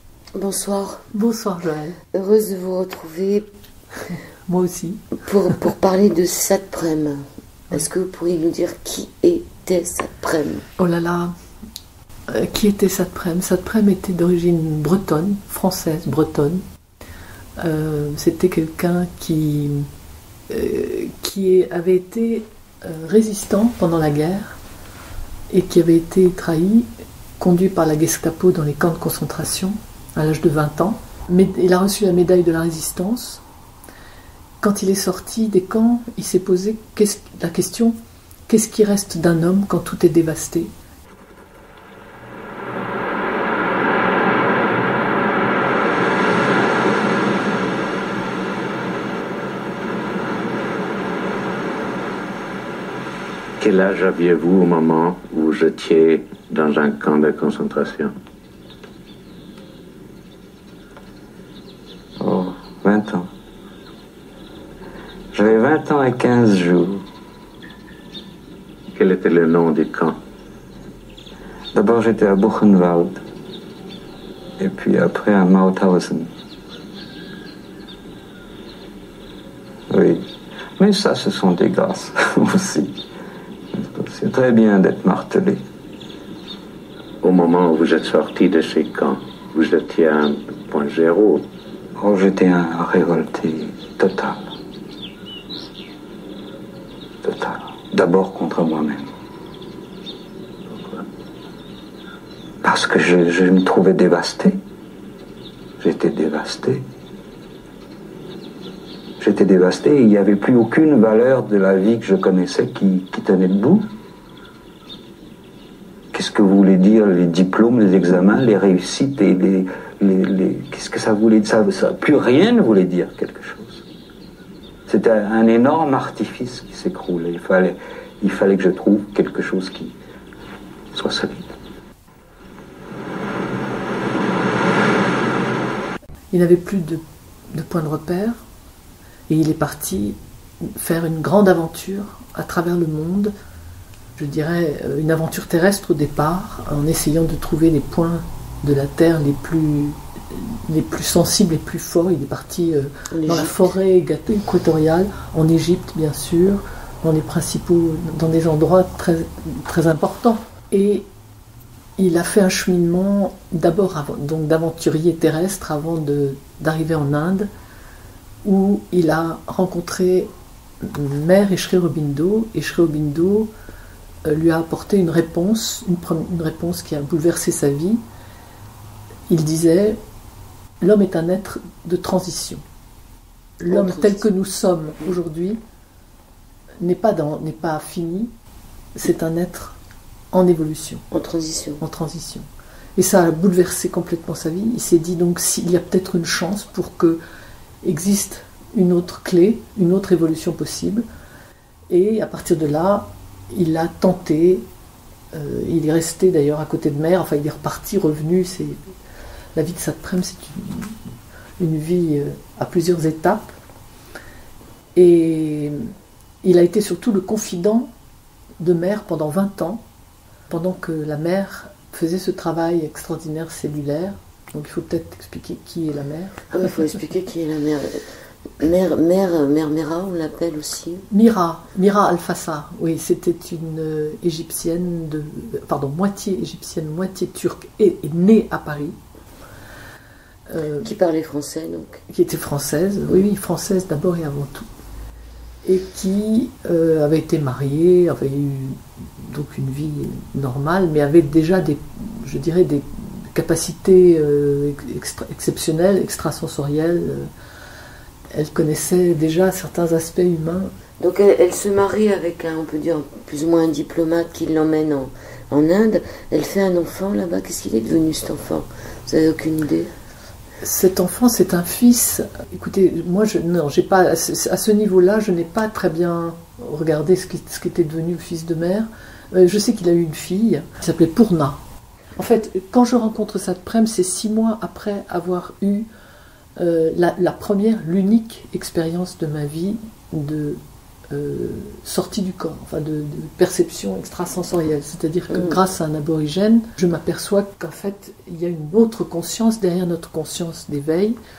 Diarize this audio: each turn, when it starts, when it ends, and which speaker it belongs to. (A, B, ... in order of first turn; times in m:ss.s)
0:00.4-0:01.0 A
0:01.1-0:02.0 B
0:02.1-0:03.5 A
0:04.5-0:05.1 B
0:05.2-0:10.6 A
0:10.8-0:11.3 B
0:12.3-0:16.6 B
0:17.6-0:19.9 B
0:20.5-0:24.6 B
0:25.5-0:26.9 B
0:27.4-0:33.4 B
0:34.6-0:38.0 B
0:38.5-0:40.7 B
0:53.6-0:58.2 C
1:02.2-1:03.3 D
1:05.3-1:07.0 D
1:08.9-1:10.2 C
1:11.7-1:13.2 D
1:14.6-1:16.3 D
1:19.9-1:20.2 D
1:20.8-1:23.0 D
1:23.7-1:25.6 D
1:27.2-1:31.4 C
1:32.0-1:34.5 D
1:37.2-1:39.1 D
1:40.8-1:41.0 D
1:42.6-1:44.6 D
1:45.8-1:46.8 D
1:49.2-1:53.8 D
1:56.1-2:03.8 D
2:04.9-2:09.9 D
2:10.9-2:11.5 D
2:16.3-2:18.4 B
2:19.3-2:23.3 B
2:24.2-2:41.1 B
2:33.1-2:33.7 A
2:42.0-2:47.5 B
2:48.4-2:53.5 B
2:54.2-2:58.0 B
2:59.3-3:00.0 B
3:00.8-3:02.6 B
3:03.6-3:05.6 B
3:03.6-3:04.2 A
3:06.8-3:08.3 B
3:09.0-3:09.8 B
3:10.3-3:11.0 B
3:11.1-3:11.8 A
3:11.8-3:17.2 B
3:17.8-3:21.0 B
3:21.9-3:24.7 B
3:25.3-3:28.8 B
3:29.6-3:31.0 B
3:31.6-3:33.5 B
3:35.0-3:35.8 B
3:36.4-3:37.9 B
3:38.6-3:39.8 B
3:40.5-3:46.8 B
3:46.5-3:48.0 A
3:48.6-3:51.1 A
3:51.1-3:59.0 B
4:00.5-4:00.9 B
4:00.8-4:02.0 A
4:02.1-4:04.7 B
4:05.6-4:17.3 B
4:18.3-4:20.7 B
4:21.0-4:29.9 A
4:30.6-4:41.6 B
4:42.2-4:45.9 B
4:46.6-5:01.2 B